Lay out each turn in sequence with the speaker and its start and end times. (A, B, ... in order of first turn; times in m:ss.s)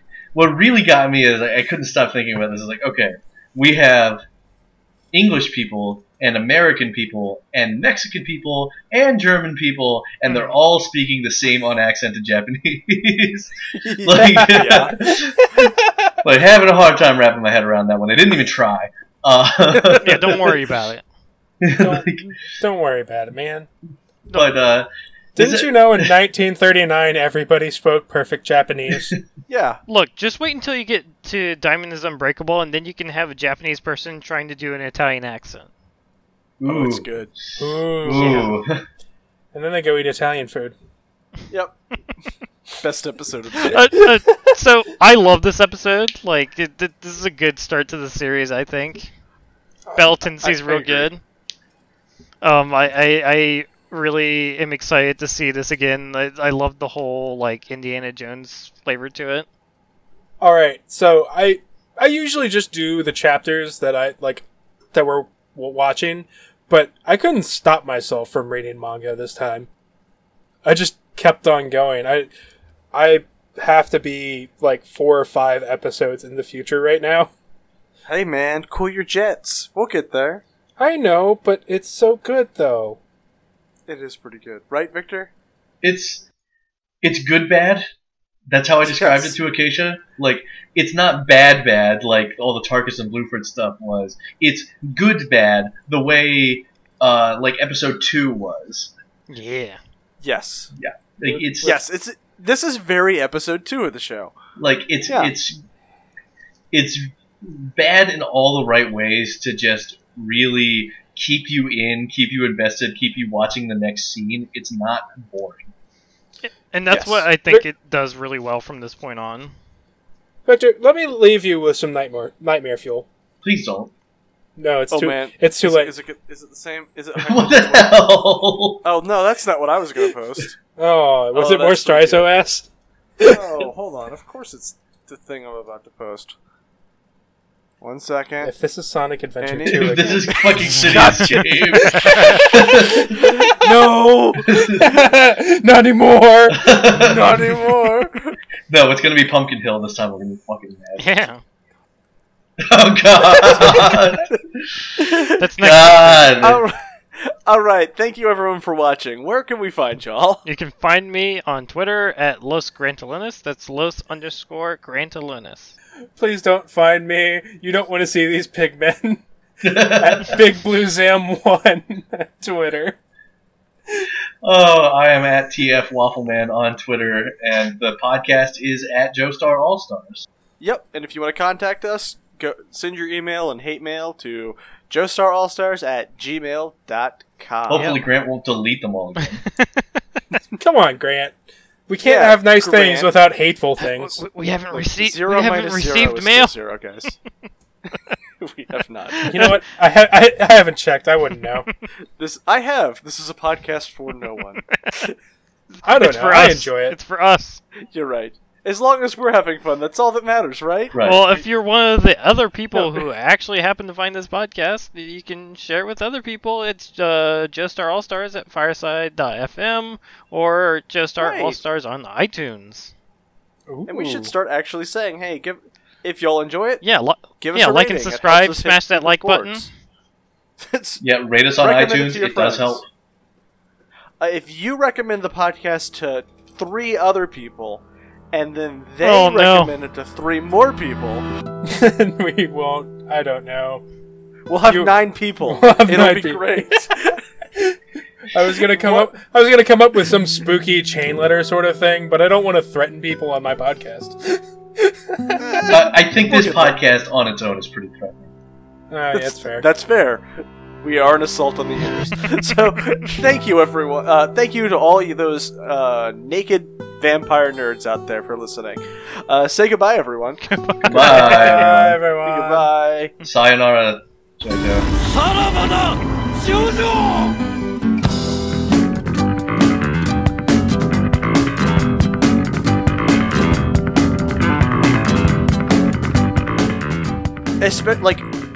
0:00.3-0:04.2 A
0:05.1-0:15.4 A
0:10.2-0:10.6 B
0:13.8-0:15.0 C
0:14.7-0:15.7 D
0:16.2-0:20.4 A
0:19.7-0:20.5 C
0:20.0-0:21.0 B
0:21.6-0:22.2 A
0:21.8-0:23.7 D
0:24.3-0:26.1 A
0:25.4-0:29.1 D
0:29.5-0:29.8 C
0:29.9-0:35.7 B
0:36.6-0:38.8 A
0:36.6-0:37.3 C
0:37.6-0:38.5 D
0:38.1-0:38.5 B
0:39.5-0:40.7 D
0:41.5-0:41.8 C
0:42.7-0:43.9 C
0:43.6-0:49.1 B
0:44.0-0:44.5 D
0:49.8-0:50.2 D
0:50.0-0:51.2 B
0:50.4-0:51.1 C
0:52.4-0:59.4 B
1:00.4-1:09.7 D
1:10.6-1:12.3 D
1:12.9-1:17.3 D
1:18.0-1:20.4 C
1:20.8-1:23.0 D
1:23.9-1:25.3 C
1:25.8-1:26.2 A
1:27.0-1:27.8 A
1:28.5-1:38.9 A
1:28.8-1:29.4 C
1:39.3-1:39.8 B
1:40.2-1:40.7 C
1:40.8-1:41.8 A
1:41.3-1:44.3 C
1:44.6-1:45.6 A
1:46.7-1:55.7 A
1:56.4-1:59.5 B
1:56.9-1:57.3 C
2:00.4-2:03.1 D
2:03.4-2:03.9 A
2:04.6-2:05.9 D
2:04.9-2:08.0 C
2:07.2-2:08.8 A
2:08.8-2:10.5 C
2:10.8-2:12.7 D
2:11.3-2:12.3 C
2:13.2-2:16.3 C
2:17.8-2:18.5 C
2:18.4-2:20.3 D
2:19.4-2:24.9 C
2:19.6-2:23.2 A
2:21.9-2:22.4 D
2:23.5-2:23.9 D
2:24.4-2:26.8 D
2:24.5-2:24.9 A
2:26.5-2:27.7 A
2:27.0-2:28.4 C
2:28.7-2:31.0 A
2:31.0-2:31.4 B
2:32.6-2:34.9 A
2:33.4-2:34.0 C
2:35.0-2:35.5 C
2:35.4-2:36.6 B
2:35.6-2:36.6 A
2:36.4-2:40.4 C
2:40.4-2:45.7 B
2:46.2-2:53.0 D
2:49.6-2:50.4 A
2:54.4-3:00.3 A
3:00.6-3:08.0 C
3:07.7-3:09.4 A
3:09.2-3:10.0 B
3:10.6-3:11.4 D
3:11.9-3:14.2 D
3:12.0-3:13.1 C
3:13.8-3:16.5 B
3:14.7-3:17.2 C
3:17.9-3:19.4 C
3:19.1-3:19.6 B
3:19.3-3:21.6 D
3:22.2-3:25.1 C
3:24.8-3:25.0 B
3:25.8-3:27.6 B
3:25.8-3:27.0 D
3:27.8-3:30.9 C
3:30.9-3:31.3 A
3:31.0-3:42.9 B
3:41.2-3:41.6 C
3:43.7-3:44.3 D
3:43.9-3:46.8 C
3:46.8-3:49.7 B
3:47.4-3:49.7 C
3:50.6-3:51.0 C
3:51.0-3:52.8 A
3:51.6-3:52.8 C
3:54.2-4:01.2 C
3:59.0-3:59.7 B
4:01.6-4:03.8 D
4:04.5-4:07.2 C
4:04.6-4:06.8 D
4:08.3-4:15.8 D
4:08.7-4:09.1 C
4:15.7-4:18.3 A
4:16.2-4:16.8 C
4:18.9-4:19.6 D
4:19.1-4:30.4 C
4:30.4-4:31.5 B
4:30.8-4:31.8 A
4:30.9-4:32.7 D
4:31.0-4:33.1 C
4:33.2-4:34.9 A
4:35.2-4:37.3 C
4:47.6-4:48.3 C